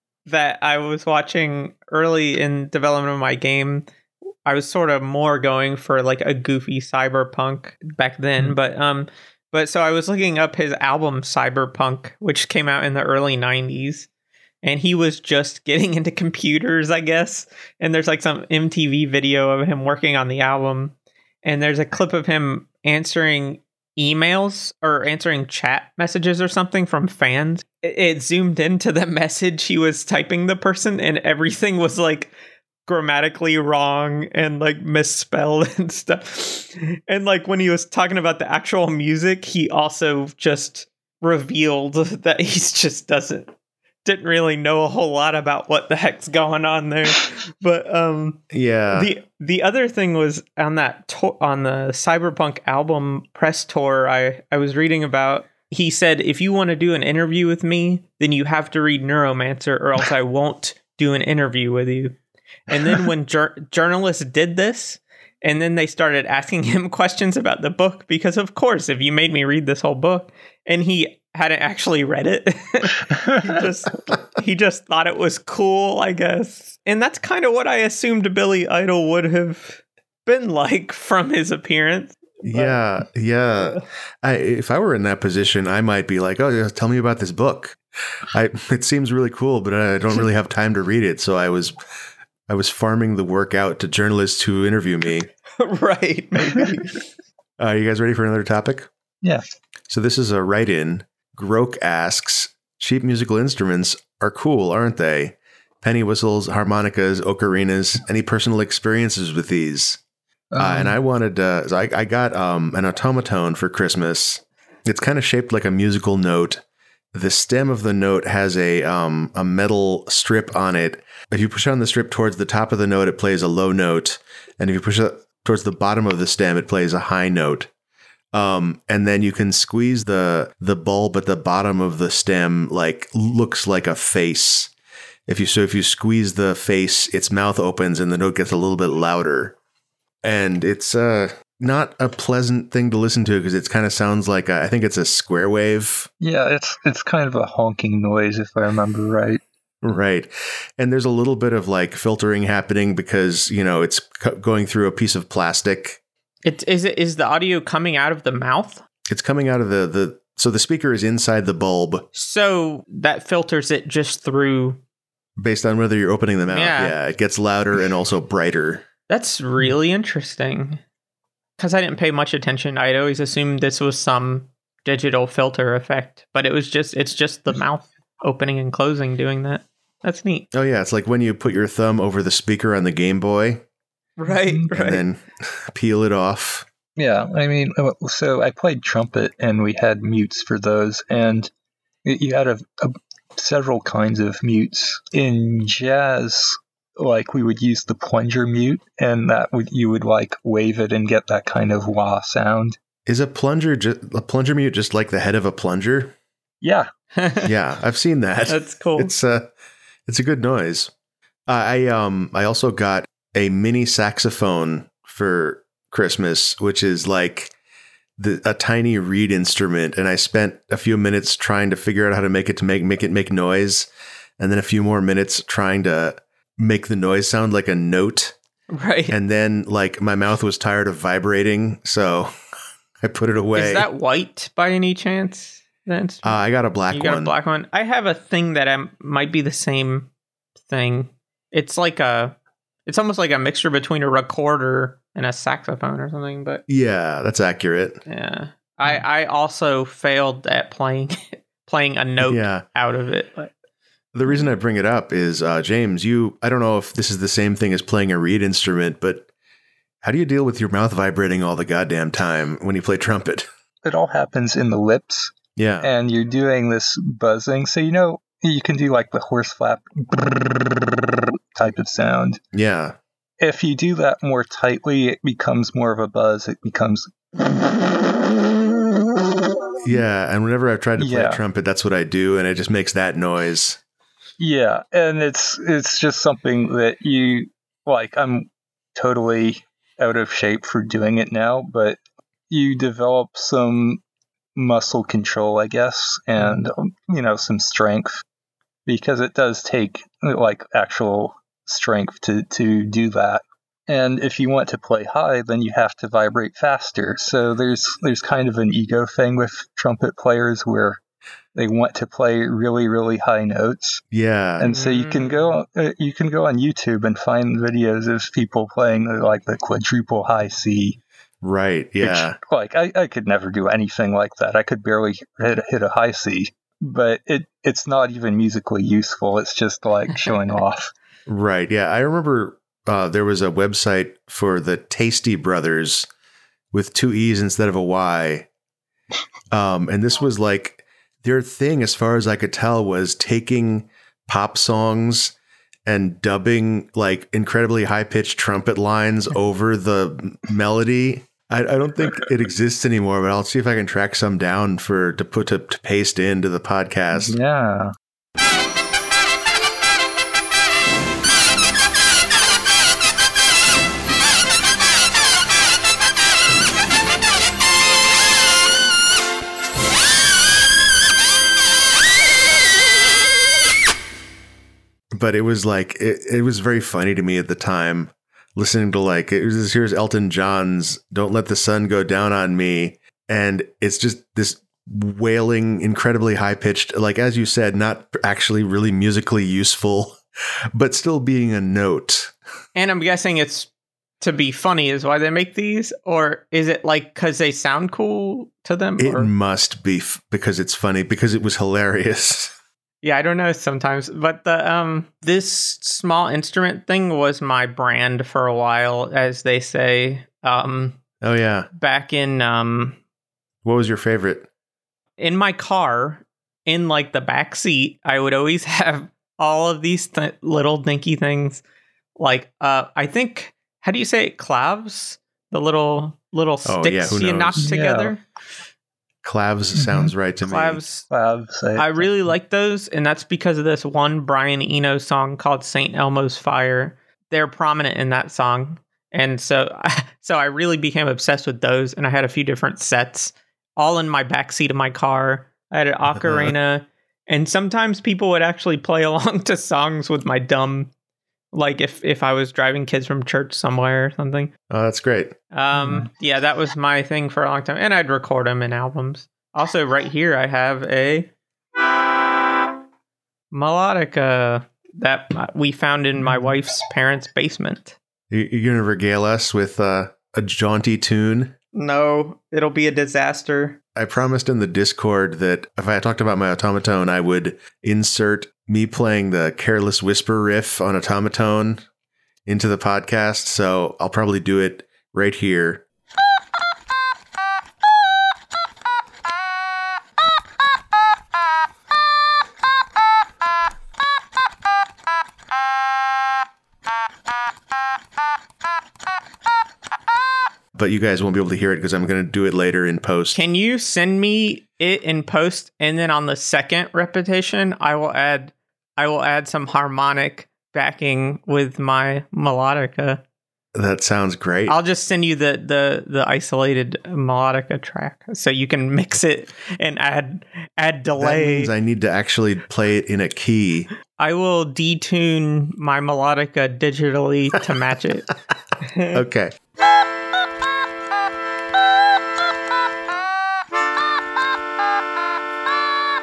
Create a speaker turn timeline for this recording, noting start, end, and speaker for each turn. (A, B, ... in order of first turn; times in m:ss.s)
0:00.3-0:03.8 A
0:04.5-0:14.1 A
0:14.6-0:32.3 A
0:32.8-0:43.5 A
0:44.0-0:48.4 A
0:48.5-0:49.1 B
0:48.9-1:02.2 A
1:02.7-1:22.8 A
1:22.4-1:31.8 B
1:32.5-1:35.3 B
1:35.6-1:37.0 A
1:37.6-1:38.9 B
1:39.9-1:50.0 B
1:50.5-1:51.0 C
1:50.6-2:07.7 B
2:08.3-2:14.7 B
2:15.3-2:19.6 B
2:20.2-2:26.1 B
2:26.2-2:29.4 C
2:29.8-2:36.0 B
2:36.4-2:38.8 A
2:39.1-2:42.1 B
2:42.1-2:44.8 A
2:45.4-2:48.9 B
2:46.5-2:47.0 A
2:49.1-2:50.8 A
2:51.6-3:00.5 A
3:00.5-3:03.6 B
3:04.2-3:05.0 A
3:04.7-3:06.7 B
3:07.0-3:11.5 C
3:12.0-3:22.8 C
3:23.1-3:26.2 B
3:26.6-3:26.9 C
3:27.2-3:27.5 A
3:27.4-3:29.5 B
3:28.5-3:29.1 A
3:30.1-3:30.9 B
3:31.5-3:37.5 B
3:38.2-3:48.4 B
3:48.7-3:49.2 A
3:49.1-3:52.3 B
3:53.0-3:53.9 B
3:53.5-4:00.1 A
3:56.2-3:57.3 B
4:00.7-4:02.4 A
4:02.9-4:06.6 A
4:06.7-4:08.0 B
4:08.1-4:13.5 A
4:12.2-4:12.6 B
4:14.1-4:19.3 B
4:20.0-4:23.5 B
4:23.8-4:32.4 C
4:25.6-4:25.9 B
4:32.5-4:33.0 B
4:33.4-4:38.4 C
4:39.8-4:43.8 B
4:41.0-4:41.4 C
4:44.4-4:52.0 C
4:52.5-4:54.0 C
4:54.6-4:58.2 C
4:58.9-5:11.0 C
5:11.6-5:14.0 C
5:14.1-5:14.7 B
5:14.6-5:21.0 C
5:14.7-5:15.6 A
5:21.4-5:22.4 B
5:22.0-5:30.9 C
5:31.3-5:36.1 B
5:36.7-5:38.5 B
5:39.5-5:45.4 B
5:45.9-5:57.4 B
5:57.1-5:57.9 C
6:15.2-6:30.2 B
6:30.7-6:32.4 B
6:32.8-6:39.3 A
6:39.0-6:42.6 B
6:43.0-6:51.0 A
6:51.2-6:51.7 B
6:51.7-6:53.0 A
6:53.6-6:54.5 B
6:55.2-7:01.6 A
7:02.2-7:08.2 A
7:06.7-7:07.6 B
7:07.6-7:08.1 C
7:09.2-7:10.8 B
7:09.8-7:10.1 C
7:10.4-7:11.1 A
7:11.1-7:12.1 C
7:11.8-7:30.9 A
7:26.1-7:26.6 B
7:31.5-7:34.5 A
7:34.7-7:35.4 B
7:35.5-7:41.3 A
7:35.8-7:36.1 C
7:43.5-7:48.0 A
7:48.3-7:51.6 B
7:51.7-7:53.8 A
7:54.0-8:01.8 B
8:02.5-8:05.8 B
8:20.8-8:23.4 B
8:23.3-8:33.2 A
8:33.8-8:34.8 B
8:34.7-8:41.7 A
8:41.2-8:43.9 B
8:44.2-8:48.3 A
8:48.8-8:49.2 A
8:49.1-8:49.6 B